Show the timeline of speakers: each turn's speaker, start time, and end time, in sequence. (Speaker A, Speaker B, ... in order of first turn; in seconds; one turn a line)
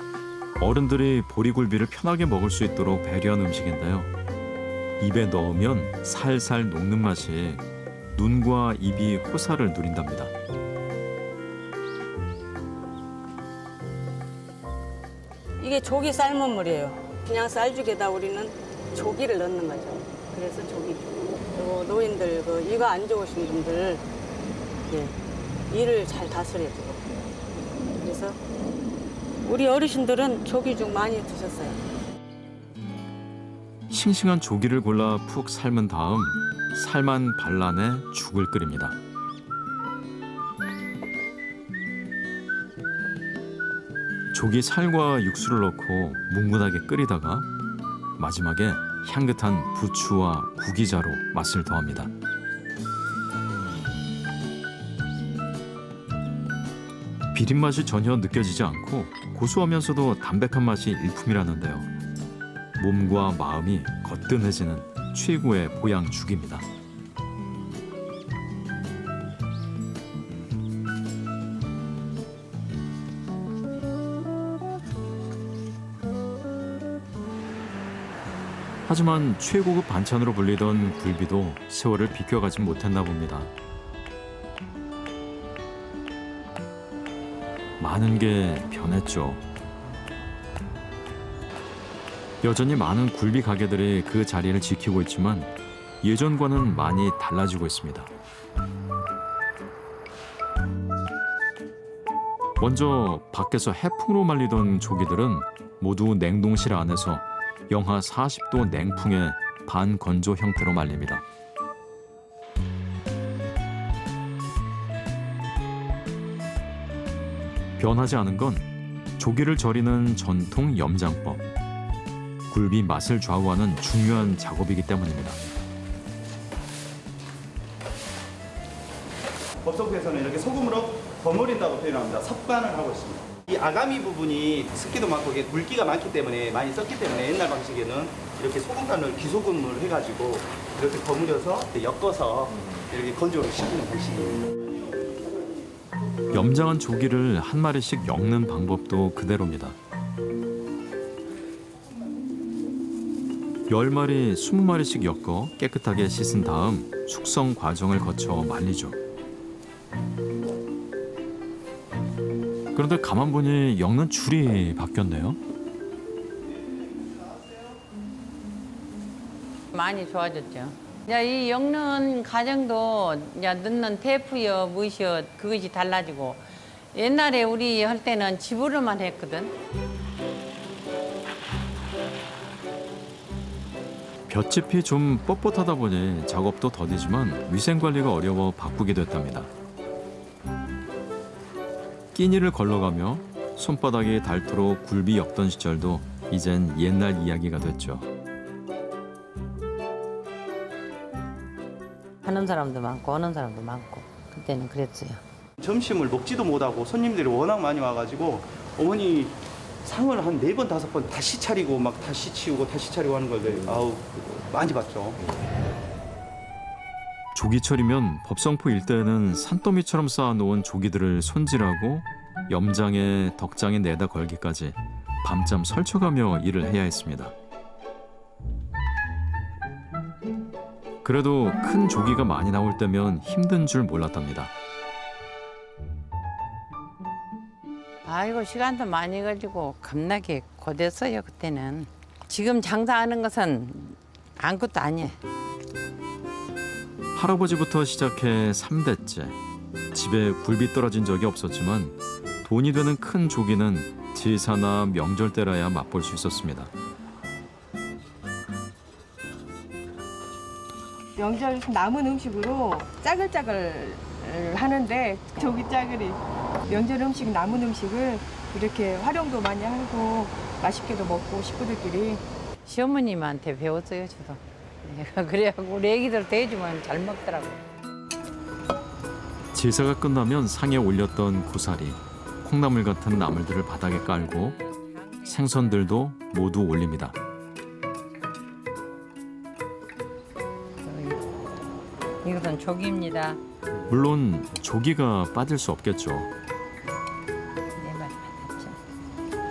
Speaker A: 0.6-4.1
Speaker A: 5.0-10.3
Speaker B: 15.6-24.0
Speaker B: 24.9-25.1
Speaker B: 25.7-27.0
Speaker B: 27.6-28.4
Speaker B: 29.4-31.8
Speaker A: 33.9-39.0
Speaker A: 44.3-47.5
Speaker A: 48.2-52.1
Speaker A: 57.3-61.9
Speaker A: 62.8-66.7
Speaker A: 78.8-83.5
Speaker A: 87.8-89.4
Speaker A: 92.4-98.1
Speaker A: 102.6-111.2
Speaker A: 117.8-121.4
Speaker A: 122.5-125.4
Speaker C: 129.6-144.6
Speaker A: 146.3-149.8
Speaker A: 153.7-159.0
Speaker A: 162.7-165.4
Speaker D: 169.7-176.4
Speaker D: 176.9-179.5
Speaker A: 184.3-189.5
Speaker A: 192.1-198.1
Speaker D: 202.2-205.2
Speaker C: 205.6-215.2
Speaker A: 217.3-227.3
Speaker A: 231.0-234.5
Speaker D: 238.0-245.2
Speaker A: 247.1-249.4
Speaker A: 249.9-256.7
Speaker E: 261.1-272.2
Speaker D: 272.6-277.6
Speaker A: 279.5-284.6
Speaker D: 284.4-285.7
Speaker A: 285.2-287.2
Speaker D: 290.8-291.2
Speaker D: 292.2-293.4
Speaker A: 293.9-296.3
Speaker D: 297.7-298.8